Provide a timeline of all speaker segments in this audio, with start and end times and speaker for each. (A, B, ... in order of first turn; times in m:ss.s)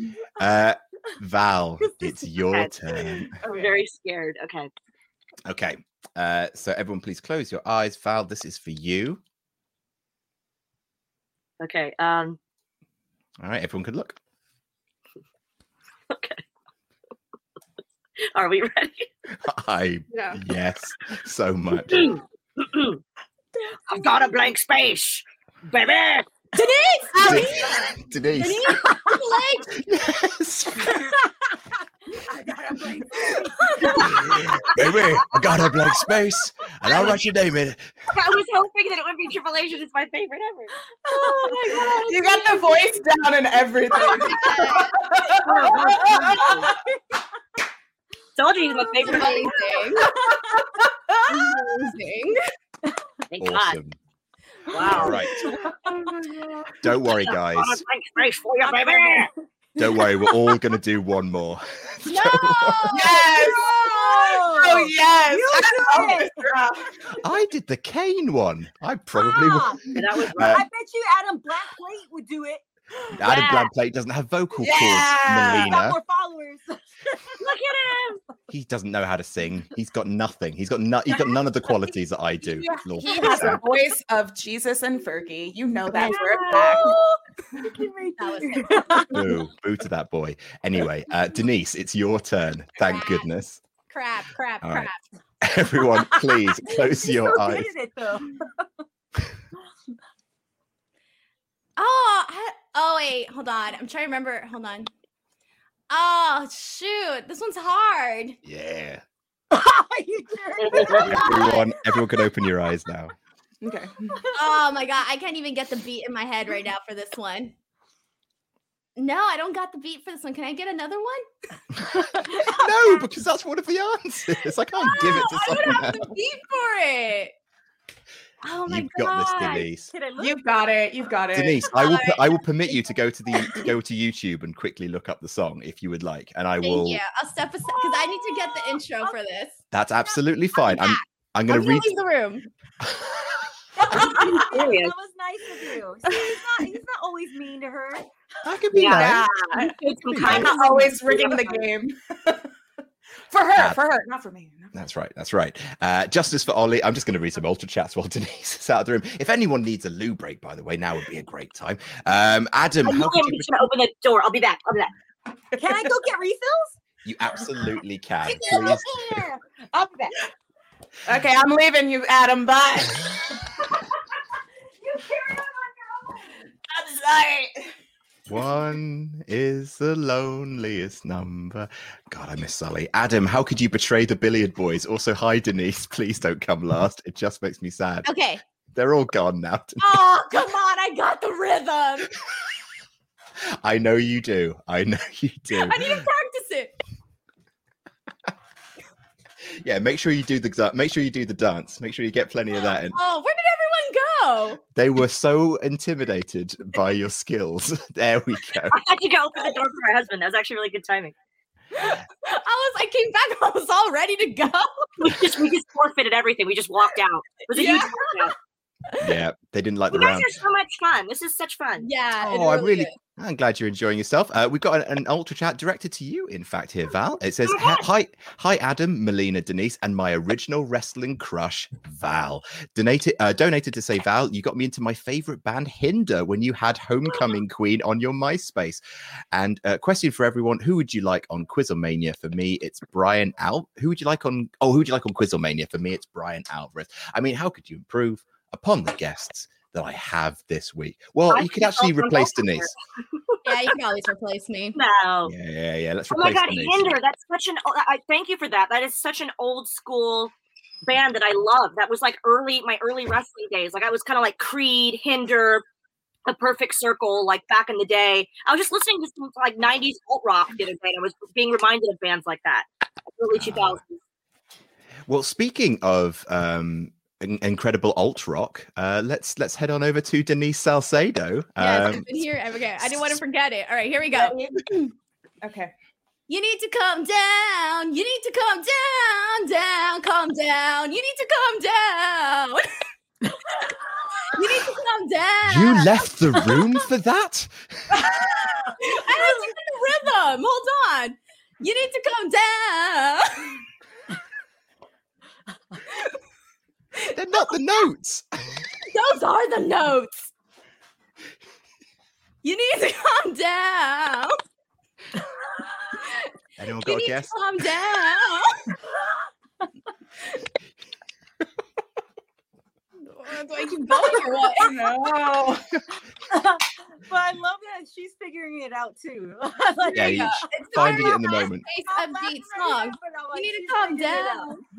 0:00.4-0:03.4 A
0:01.8-0:02.1 B
0:03.4-0:04.7 C
0:05.4-0:09.2 A
0:11.6-0:12.4 C
0:13.4-0:14.2 A
0:16.1-0:16.4 C
0:18.3-0:19.1 C
0:19.4-0:22.1 A
0:20.1-0:20.4 D
0:21.9-0:23.0 C
0:23.9-0:26.3 C
0:26.6-0:27.5 E
0:27.1-0:27.9 D
0:27.2-0:28.8 A
0:28.4-0:29.2 B
0:28.6-0:29.7 E
0:29.7-0:31.0 A
0:32.1-0:34.8 B
0:33.8-0:34.1 D
0:34.1-0:37.8 A
0:38.1-0:40.7 C
0:41.1-0:42.0 B
0:41.4-0:42.6 E
0:41.8-0:46.7 D
0:43.9-0:44.9 E
0:44.0-0:44.8 C
0:45.4-0:46.7 C
0:46.0-0:46.8 B
0:48.4-0:49.9 C
0:48.8-0:50.6 B
0:49.0-0:50.2 E
0:49.0-0:51.7 D
0:51.3-0:52.4 E
0:53.3-0:53.8 C
0:53.4-0:54.0 A
0:54.7-0:55.5 C
0:54.9-0:55.5 A
0:54.9-0:55.1 D
0:56.8-0:57.8 A
0:57.0-0:59.3 C
0:58.6-0:59.3 B
0:59.8-1:03.1 A
1:02.1-1:03.6 E
1:02.9-1:06.9 D
1:03.2-1:06.5 B
1:07.2-1:10.6 A
1:09.2-1:09.8 B
1:09.9-1:10.6 C
1:10.4-1:12.6 B
1:13.1-1:16.0 A
1:13.3-1:13.7 C
1:14.6-1:15.7 D
1:15.4-1:17.4 B
1:17.4-1:18.2 C
1:18.5-1:23.6 A
1:22.6-1:26.9 D
1:23.0-1:23.6 E
1:25.9-1:27.1 E
1:26.1-1:27.0 B
1:26.1-1:26.8 C
1:27.6-1:29.1 B
1:28.2-1:29.1 E
1:29.1-1:33.6 A
1:32.8-1:33.3 E
1:33.9-1:35.0 E
1:34.6-1:34.9 A
1:35.4-1:37.7 A
1:36.0-1:38.6 B
1:41.8-1:44.9 E
1:45.9-1:48.4 E
1:48.4-1:49.0 A
1:49.5-1:52.3 B
1:50.6-1:51.0 C
1:50.9-1:51.6 E
1:50.9-1:53.2 A
1:53.6-1:54.2 D
1:54.4-1:57.5 E
1:59.0-2:01.2 E
2:02.4-2:06.1 A
2:04.8-2:07.3 E
2:08.4-2:09.7 E
2:08.7-2:09.9 A
2:09.9-2:10.4 B
2:10.2-2:11.7 D
2:11.3-2:17.0 A
2:11.7-2:12.3 E
2:16.6-2:19.6 E
2:17.7-2:19.2 B
2:19.7-2:22.0 A
2:20.6-2:22.4 E
2:23.7-2:28.0 B
2:24.0-2:24.9 C
2:26.1-2:26.4 D
2:28.4-2:29.4 A
2:28.7-2:31.6 C
2:29.0-2:32.5 D
2:30.0-2:30.6 A
2:33.3-2:34.7 D
2:33.6-2:33.8 A
2:34.7-2:43.6 A
2:42.8-2:44.9 C
2:45.6-2:45.9 D
2:45.6-2:46.7 B
2:47.0-2:49.2 A
2:48.4-2:49.4 B
2:49.7-2:50.3 D
2:51.1-2:53.6 D
2:56.7-2:57.6 D
2:58.3-3:08.1 A
3:08.0-3:08.4 E
3:08.7-3:10.0 A
3:09.8-3:12.1 E
3:13.6-3:16.0 A
3:15.5-3:16.7 E
3:19.6-3:23.0 A
3:22.9-3:24.6 E
3:24.7-3:28.8 A
3:28.7-3:31.1 C
3:31.7-3:34.9 E
3:35.0-3:38.3 C
3:37.6-3:37.9 E
3:39.0-3:40.4 A
3:39.9-3:41.9 C
3:41.8-3:42.9 E
3:42.2-4:12.7 A
3:47.4-3:47.8 C
4:11.3-4:12.8 C
4:13.3-4:13.7 C
4:13.4-4:14.8 E
4:14.8-4:15.3 C
4:15.2-4:17.0 A
4:16.1-4:20.3 C
4:20.9-4:25.6 C
4:26.3-4:32.7 C
4:33.2-4:34.0 C
4:33.3-4:33.8 A
4:35.1-4:42.2 A
4:41.6-4:44.8 E
4:42.8-4:43.2 A
4:44.1-4:44.9 D
4:45.4-4:45.7 D
4:46.3-4:52.7 E
4:54.3-4:56.1 E
4:55.4-4:58.0 A
4:58.8-5:03.6 E
4:59.1-4:59.4 B
5:07.2-5:08.6 A
5:08.9-5:10.3 E
5:12.4-5:14.4 E
5:15.9-5:16.3 E
5:16.6-5:17.4 A
5:16.8-5:18.7 E
5:23.1-5:24.9 E
5:24.5-5:25.7 D
5:26.3-5:31.1 B
5:29.9-5:34.6 E
5:29.9-5:31.6 A
5:31.8-5:34.6 B